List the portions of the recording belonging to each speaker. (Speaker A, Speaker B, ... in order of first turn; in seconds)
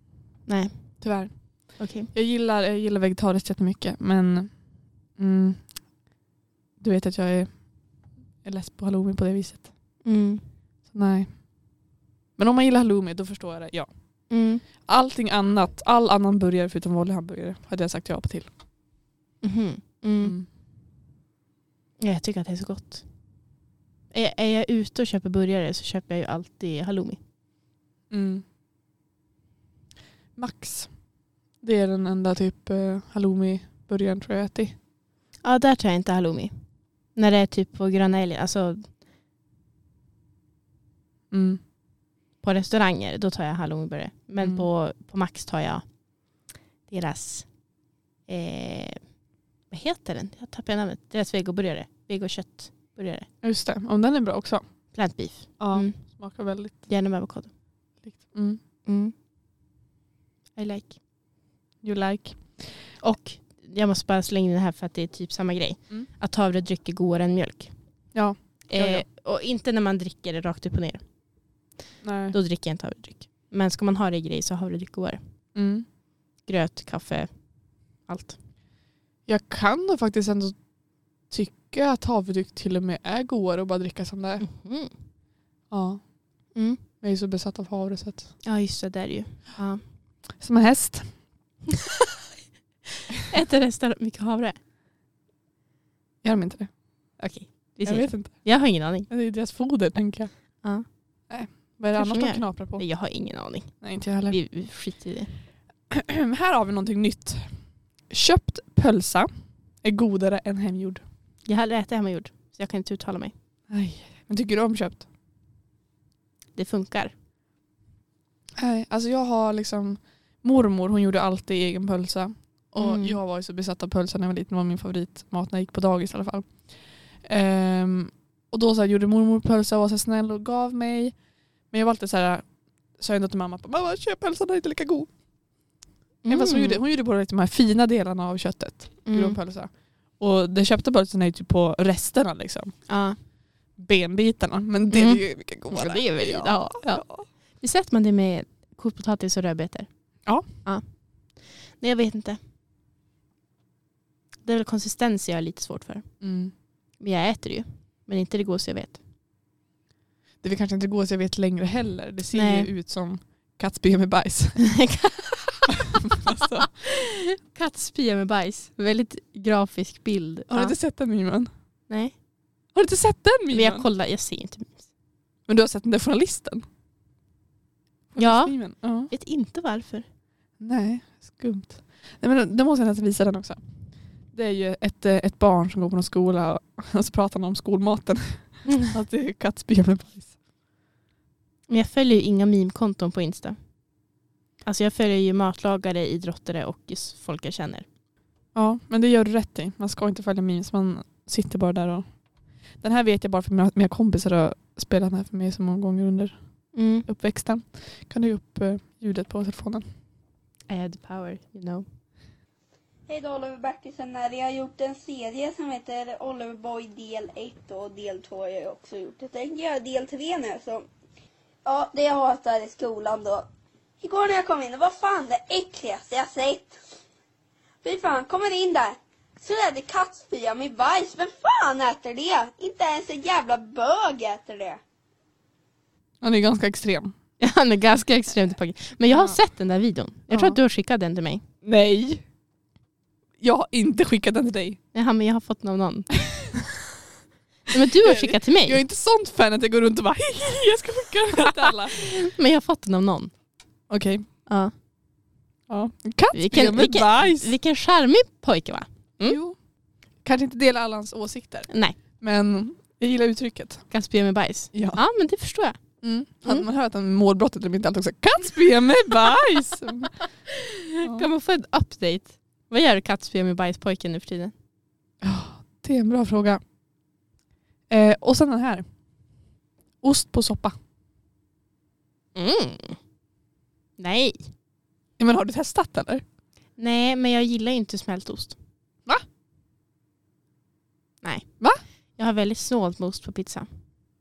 Speaker A: 0.5-0.8, 1.8-2.1, 10.0-10.4, 14.3-14.6, 19.4-20.3, 22.0-23.0, 24.1-27.2, 35.4-36.5, 37.1-38.9, 42.4-45.8, 46.9-47.5, 48.3-49.0, 49.7-53.3, 54.9-56.0, 56.9-57.5, 58.9-59.1, 60.6-61.0, 63.0-67.7, 68.7-71.0, 72.3-75.2, 76.5-77.3, 78.1-78.4, 84.4-84.9, 86.5-86.8, 88.4-89.8, 93.3-94.6, 97.2-99.1, 102.0-105.3, 111.5-113.3, 116.5-117.1, 122.8-123.2, 136.2-136.8, 139.1-139.4, 142.9-143.2, 144.9-147.1, 147.6-149.9, 151.8-152.4, 154.4-156.1, 157.0-159.0, 162.3-162.7, 164.6-165.7, 166.3-170.8, 171.9-172.2, 173.5-174.8, 178.2-180.1, 188.7-188.9, 191.7-193.6, 194.6-197.9, 206.7-207.1, 210.7-211.8, 237.4-241.4, 244.9-246.7, 247.7-248.8, 251.5-253.3, 254.5-254.7, 256.3-259.4, 261.7-262.0, 263.9-265.8, 270.5-274.5, 282.4-283.0, 284.0-284.5, 286.8-288.6, 291.2-291.5, 292.2-293.7
Speaker B: 1.0-5.8, 6.8-7.9, 8.4-9.7, 10.9-11.5, 12.4-13.9, 14.8-18.5, 20.2-20.5, 28.1-28.4, 30.4-30.9, 31.6-34.8, 41.3-41.6, 44.4-44.7, 53.4-54.6, 55.6-56.8, 58.0-58.6, 61.8-62.6, 68.1-69.0, 72.0-72.4, 75.5-75.9, 79.3-80.6, 81.3-84.5, 85.7-86.1, 87.0-88.3, 90.4-91.1, 96.2-96.7, 97.8-98.5, 99.1-100.3, 101.3-102.8, 103.8-104.4, 105.9-107.5, 108.1-109.3, 109.8-111.0, 113.7-115.0, 118.6-126.6, 127.2-131.2, 131.7-135.1, 136.3-142.7, 143.8-147.2, 156.2-156.5, 160.4-164.8, 166.1-166.7, 170.5-171.5, 172.7-173.9, 175.5-176.7, 178.1-179.1, 180.6-183.6, 184.3-190.3, 198.6-202.1, 202.8-206.4, 207.1-209.8, 236.2-237.2, 239.1-239.4, 240.3-240.6, 241.6-242.2, 243.4-244.8, 248.0-252.1, 253.9-254.3, 255.7-257.5, 259.2-259.6, 260.2-263.9, 264.7-265.0, 266.0-270.2, 271.0-271.3, 275.2-276.6, 277.9-278.9, 280.0-280.8, 285.2-286.2
Speaker C: 213.1-220.9, 221.7-223.5, 224.0-226.7, 227.8-234.8